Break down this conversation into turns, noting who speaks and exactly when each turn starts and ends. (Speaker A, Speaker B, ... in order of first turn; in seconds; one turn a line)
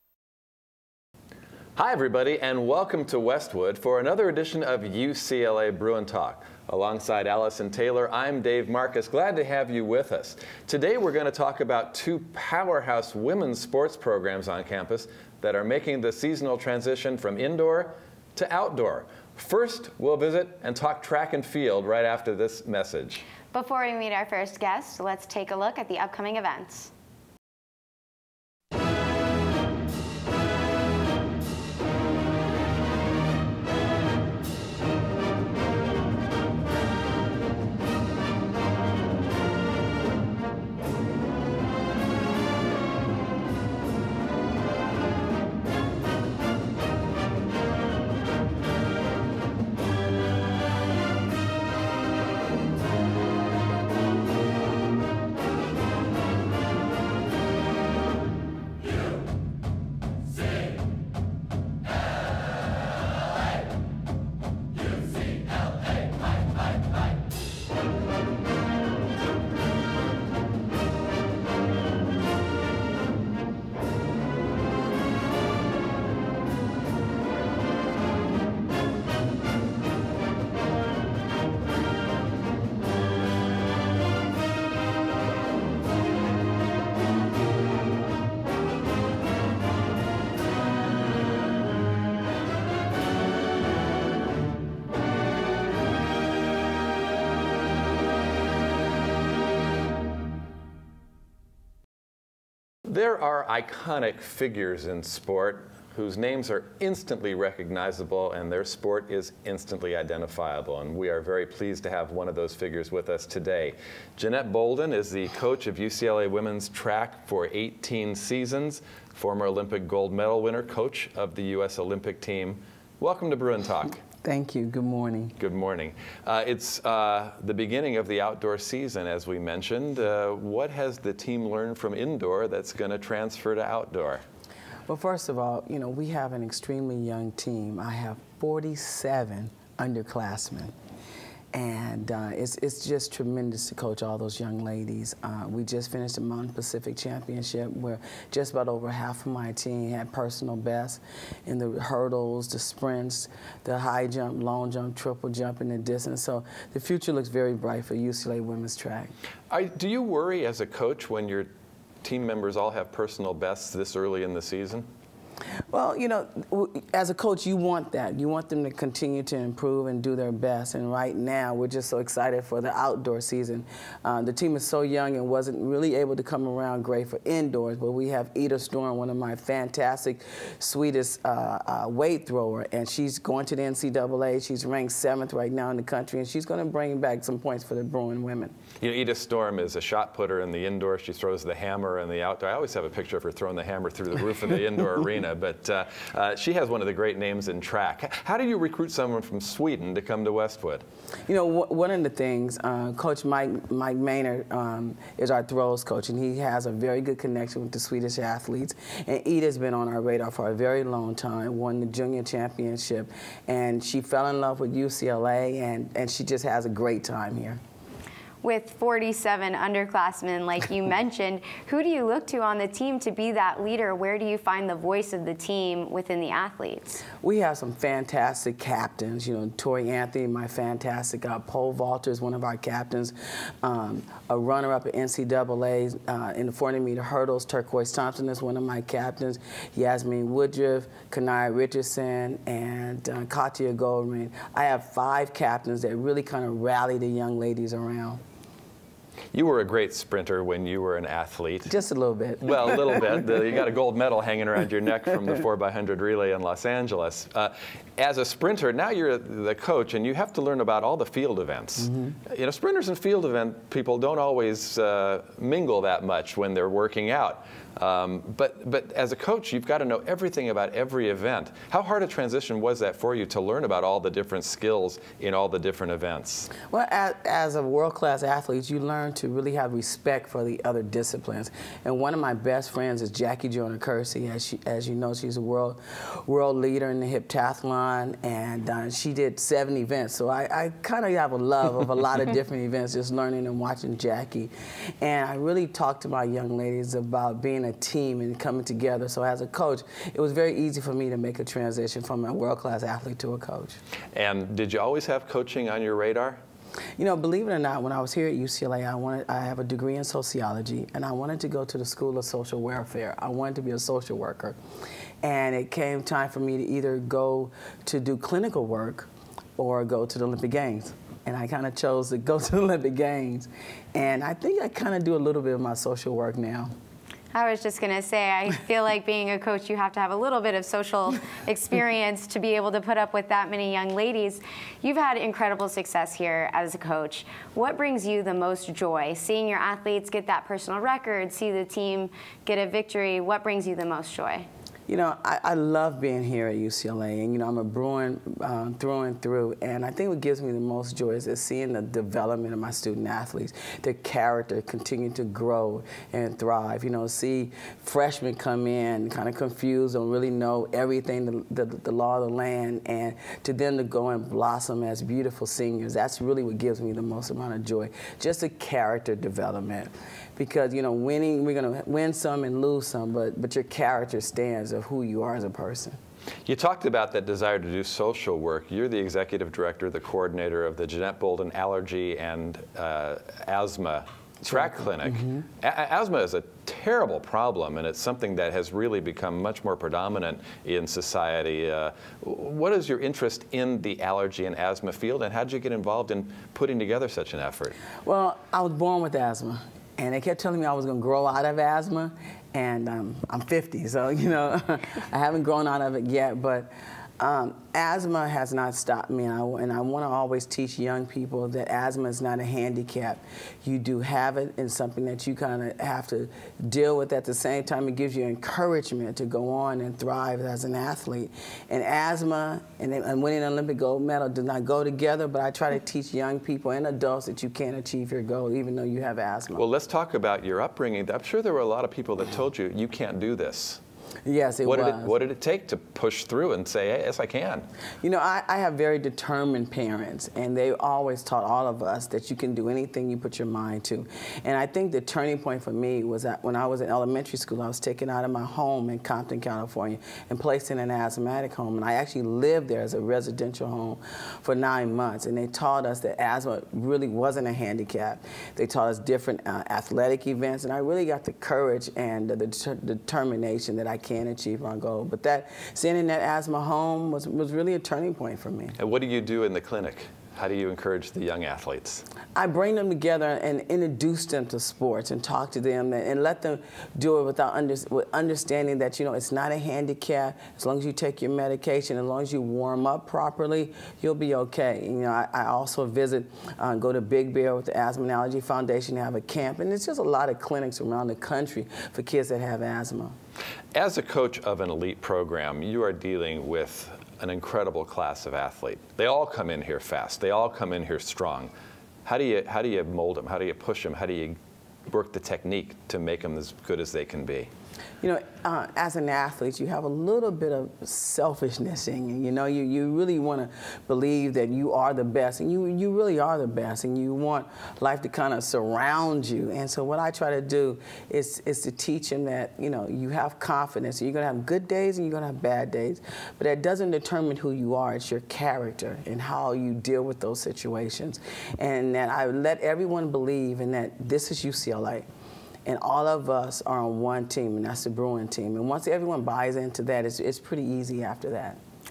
Speaker A: 1.8-23.2
Speaker B: 23.5-26.9
Speaker A: 102.9-124.0
Speaker C: 124.2-125.4
Speaker A: 125.4-134.2
Speaker C: 134.9-140.7
Speaker C: 141.5-159.1
Speaker A: 159.5-161.5
Speaker A: 162.0-164.9
Speaker C: 165.7-188.5
Speaker A: 188.8-200.8
Speaker C: 201.3-217.6
Speaker B: 218.4-227.0
Speaker C: 227.2-248.2
Speaker A: 249.3-251.7
Speaker C: 251.7-253.5
Speaker A: 252.4-276.5
Speaker C: 261.8-262.1
Speaker C: 276.6-303.8
Speaker A: 304.1-306.4
Speaker C: 307.0-314.6
Speaker C: 315.2-326.7
Speaker B: 327.3-344.5
Speaker C: 344.9-376.0
Speaker A: 376.5-397.8
Speaker C: 384.5-385.4
Speaker C: 398.0-429.6
Speaker A: 429.6-433.8
Speaker C: 434.2-435.2
Speaker A: 434.6-437.7
Speaker C: 438.0-468.8
Speaker A: 468.8-472.1
Speaker C: 472.4-493.2
Speaker A: 493.8-501.5
Speaker A: 502.1-504.4
Speaker A: 504.9-507.5
Speaker C: 508.0-535.1
Speaker C: 535.6-541.6